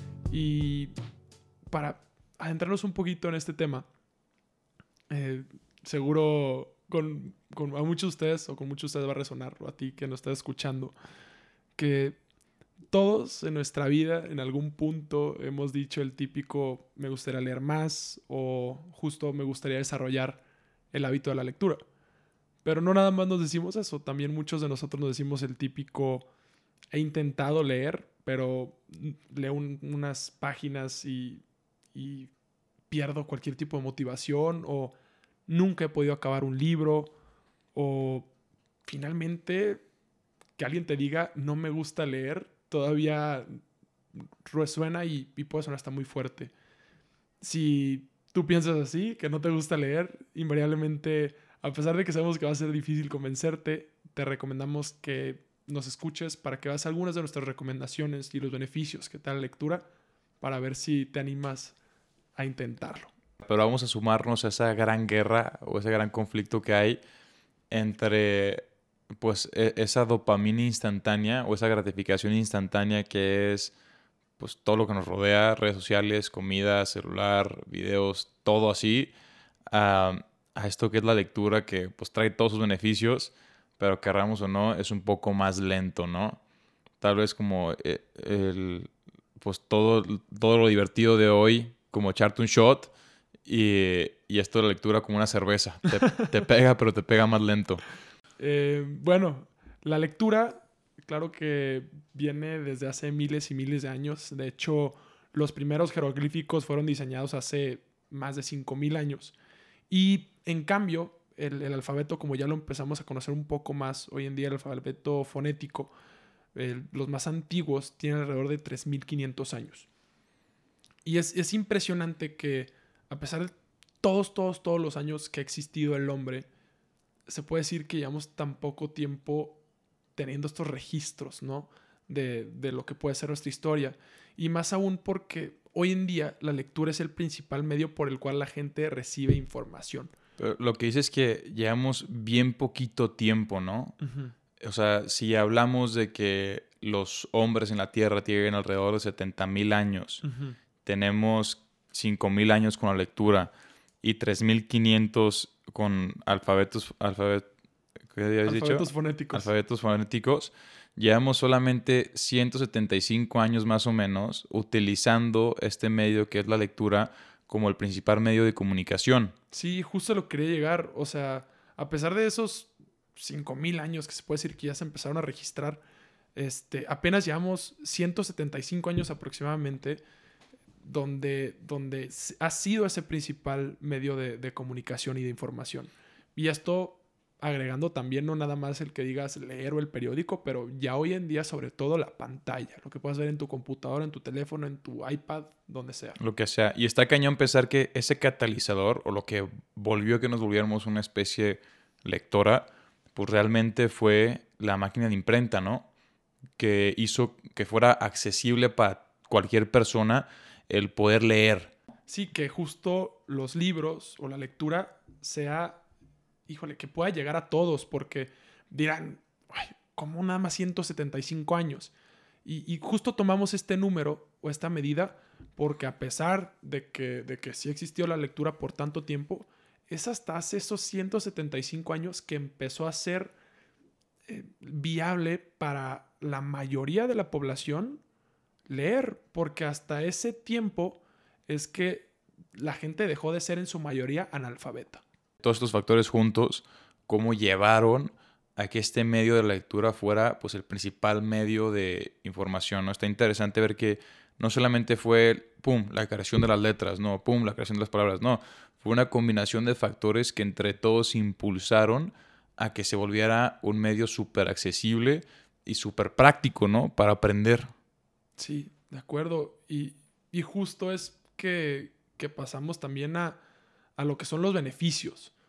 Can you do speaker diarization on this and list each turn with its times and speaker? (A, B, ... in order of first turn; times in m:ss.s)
0:00.3-0:00.9 A
0:01.7-0:03.9 A
0:05.1-0:10.9 A
0:11.8-0:12.2 A
0:12.9-0:20.4 A
0:20.9-0:21.8 A
0:22.6-0:26.3 A
0:26.9-0:31.4 A
0:31.9-0:32.3 A
0:32.9-0:34.9 A
0:35.5-0:37.1 A
0:37.7-0:38.3 A
0:38.8-0:39.8 A
0:40.6-0:43.6 A
0:44.1-0:46.5 A
0:47.4-0:59.8 A
1:00.4-1:01.8 A
1:02.4-1:03.1 A
1:03.4-1:07.0 B
1:07.7-1:08.6 B
1:09.2-1:13.7 B
1:14.4-1:19.1 B
1:19.7-1:26.4 B
1:27.0-1:32.9 B
1:33.4-1:37.8 B
1:38.4-1:49.3 A
1:49.9-1:55.9 A
1:56.5-1:59.9 A
2:01.0-2:06.5 A
2:07.3-2:09.6 A
2:10.2-2:20.1 A
2:20.4-2:24.0 B
2:24.0-2:24.3 A
2:24.6-2:30.2 B
2:30.2-2:30.6 A
2:30.8-2:37.4 B
2:38.1-2:49.3 B
2:38.4-2:39.5 A
2:49.5-2:55.8 A
2:56.3-3:00.0 A
3:00.8-3:16.2 A
3:16.2-3:25.9 B
3:26.6-3:31.7 B
3:32.1-3:35.8 A
3:36.5-3:41.9 A
3:42.4-3:53.3 A
3:54.3-3:58.0 A
3:58.7-4:05.0 A
4:05.4-4:27.7 B
4:28.4-4:33.4 A
4:34.0-4:35.3 A